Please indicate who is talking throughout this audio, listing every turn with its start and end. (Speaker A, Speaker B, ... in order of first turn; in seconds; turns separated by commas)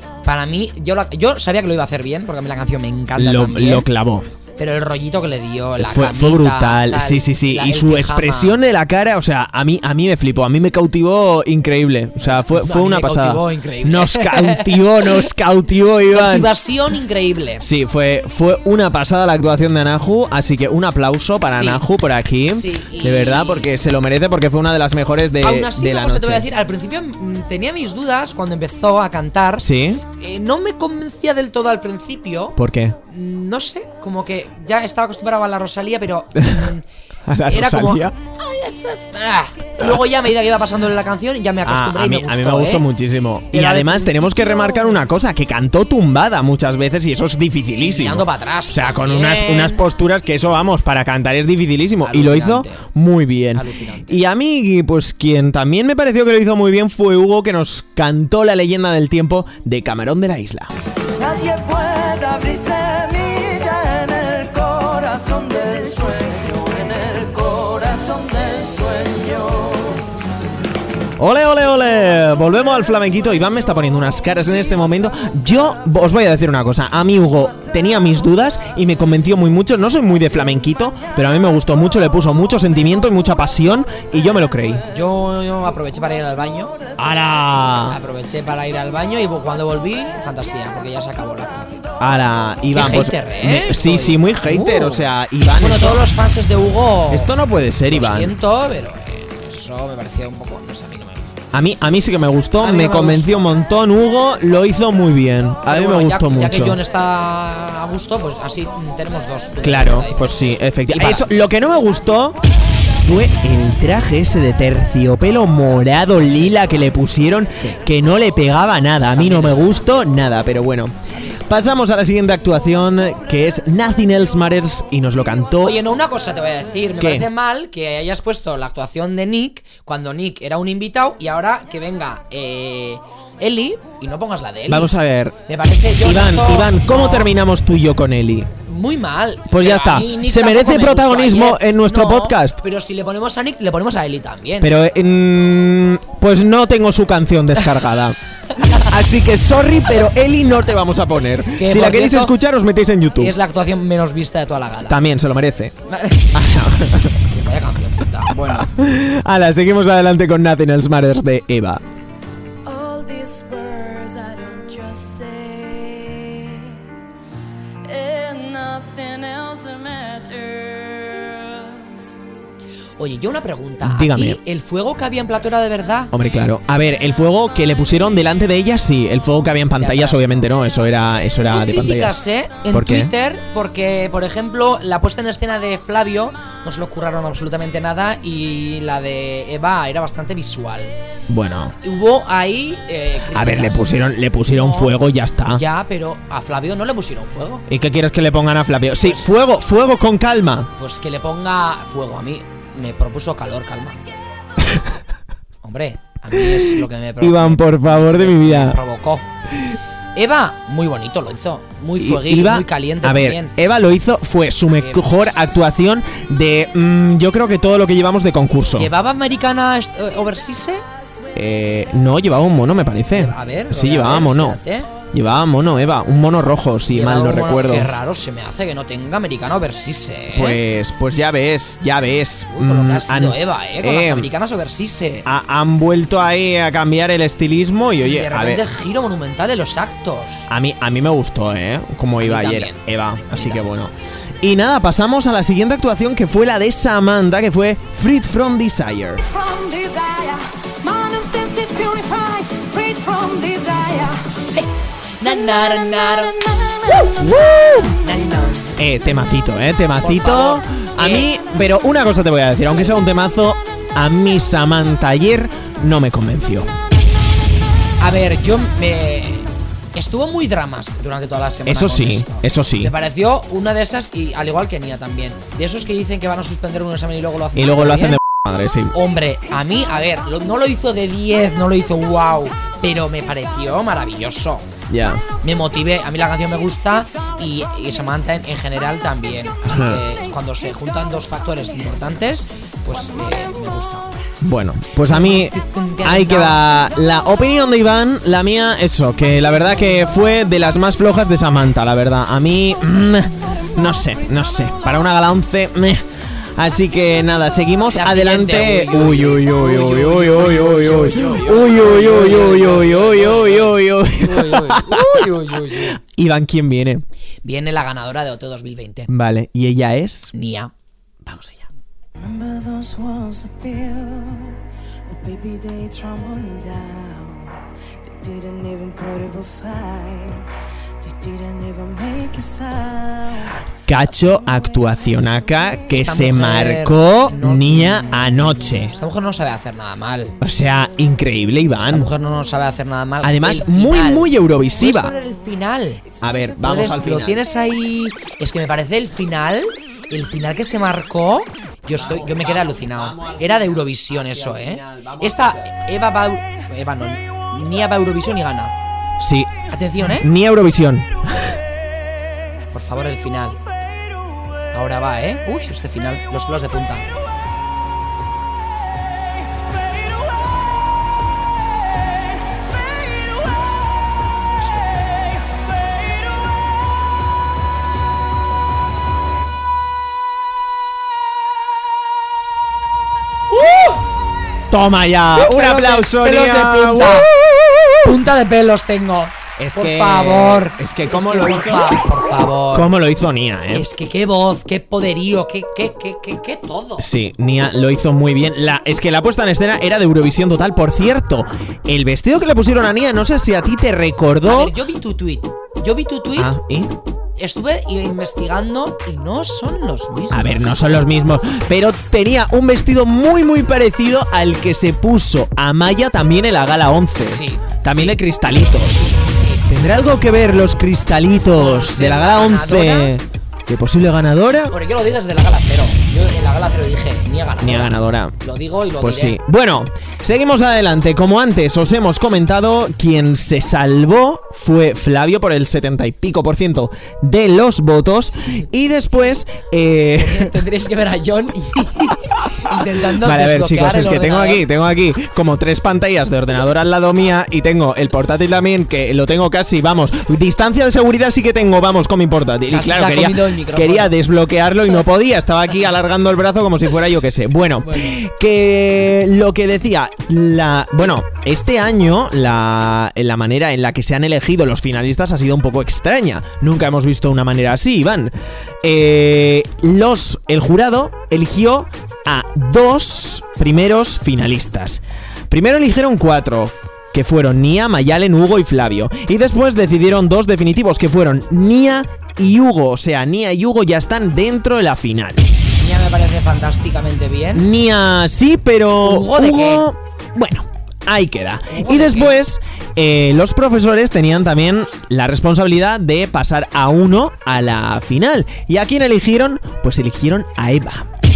Speaker A: 0.2-3.9, Speaker B: 3.2-4.3, Speaker A: 4.6-8.6, Speaker B: 5.8-16.5, Speaker A: 12.2-15.2, Speaker A: 16.1-17.6, Speaker B: 17.6-26.5, Speaker A: 21.5-21.8, Speaker A: 22.5-23.7, Speaker A: 25.4-32.6, Speaker B: 29.6-30.0, Speaker B: 32.6-33.0, Speaker A: 33.1-36.9, Speaker B: 36.4-36.7, Speaker B: 37.3-38.1, Speaker A: 37.5-42.9, Speaker B: 41.6-60.7, Speaker A: 43.5-45.0, Speaker A: 47.8-49.8, Speaker A: 52.0-52.9, Speaker A: 53.5-54.2, Speaker C: 61.2-70.0, Speaker B: 71.2-84.8, Speaker A: 84.9-86.8, Speaker B: 87.0-88.0, Speaker A: 87.9-91.9, Speaker B: 92.0-96.1, Speaker A: 92.7-97.3, Speaker B: 97.1-98.3, Speaker A: 97.9-101.4, Speaker B: 101.5-106.8, Speaker A: 102.6-103.4, Speaker A: 105.7-111.3, Speaker B: 109.6-112.4, Speaker B: 112.9-125.8, Speaker A: 116.2-116.6, Speaker A: 117.5-117.8, Speaker A: 119.2-119.9, Speaker A: 121.1-121.5, Speaker A: 125.6-134.9, Speaker B: 127.0-127.3, Speaker B: 134.7-135.4, Speaker A: 135.5-137.3, Speaker B: 136.0-138.5, Speaker A: 138.7-144.7, Speaker B: 139.5-142.6, Speaker B: 144.6-153.4, Speaker A: 148.5-148.9, Speaker A: 151.6-152.3, Speaker A: 153.2-155.0, Speaker B: 154.9-155.7, Speaker A: 155.9-156.3, Speaker B: 156.3-157.2, Speaker A: 157.3-158.7, Speaker B: 158.3-161.8, Speaker D: 162.7-166.8, Speaker D: 167.8-172.1, Speaker A: 173.0-176.1, Speaker B: 173.8-174.4, Speaker B: 176.1-182.2, Speaker A: 179.8-180.5, Speaker A: 181.4-191.0, Speaker B: 182.7-183.1, Speaker B: 191.3-191.8, Speaker A: 191.8-194.9, Speaker B: 193.3-195.6, Speaker A: 195.5-197.7, Speaker B: 197.7-200.7, Speaker A: 199.0-199.3, Speaker A: 200.8-204.0, Speaker B: 204.6-204.9, Speaker A: 205.6-209.3, Speaker B: 207.2-208.8, Speaker A: 210.2-213.6, Speaker B: 212.0-218.9, Speaker A: 214.8-215.6, Speaker A: 218.8-220.8, Speaker B: 221.3-224.6, Speaker A: 223.1-224.9, Speaker B: 225.1-227.9, Speaker A: 226.9-230.6, Speaker B: 230.3-234.3, Speaker A: 232.5-235.3, Speaker B: 235.3-238.6, Speaker A: 238.0-240.5, Speaker B: 240.5-249.2, Speaker A: 242.2-243.7, Speaker D: 249.3-254.3, Speaker A: 255.2-256.4, Speaker D: 255.3-257.1, Speaker B: 257.2-257.9, Speaker A: 257.9-258.8, Speaker B: 258.8-266.7, Speaker A: 260.0-261.3, Speaker A: 268.0-278.2, Speaker B: 271.7-272.9, Speaker B: 277.6-278.9, Speaker A: 278.9-284.7, Speaker B: 284.9-285.2, Speaker A: 285.4-294.2, Speaker B: 289.7-290.0, Speaker B: 294.4-306.0, Speaker A: 295.1-296.6, Speaker B: 306.6-317.1, Speaker A: 307.9-316.0, Speaker A: 317.4-319.1, Speaker B: 319.1-320.3, Speaker A: 320.3-320.7, Speaker B: 321.3-321.6, Speaker C: 322.2-330.5, Speaker C: 331.0-333.6, Speaker B: 333.9-338.9, Speaker C: 334.4-334.9, Speaker A: 335.9-340.4, Speaker B: 340.4-342.1, Speaker A: 341.8-346.0, Speaker B: 343.2-345.1, Speaker B: 346.2-347.4, Speaker A: 346.6-358.7, Speaker B: 351.9-355.8, Speaker B: 359.2-361.6, Speaker A: 359.7-360.3, Speaker A: 362.7-363.6, Speaker A: 364.7-367.1, Speaker A: 374.6-375.1, Speaker A: 383.5-384.0, Speaker B: 384.7-387.3, Speaker A: 385.4-387.3, Speaker A: 388.0-392.9, Speaker B: 389.6-392.0, Speaker B: 392.7-393.9, Speaker A: 393.7-397.1, Speaker B: 397.0-404.8, Speaker A: 404.4-406.6, Speaker B: 406.4-406.9, Speaker A: 407.4-411.0, Speaker B: 410.3-419.1, Speaker A: 417.2-418.2, Speaker A: 418.8-419.7, Speaker B: 419.7-424.8, Speaker A: 421.5-423.1, Speaker A: 424.7-429.4, Speaker B: 427.6-428.4, Speaker B: 429.0-440.5, Speaker A: 440.1-444.6, Speaker B: 442.7-485.4, Speaker A: 452.7-454.2, Speaker A: 485.8-487.7, Speaker B: 487.5-501.1, Speaker A: 489.0-489.9, Speaker A: 491.7-492.4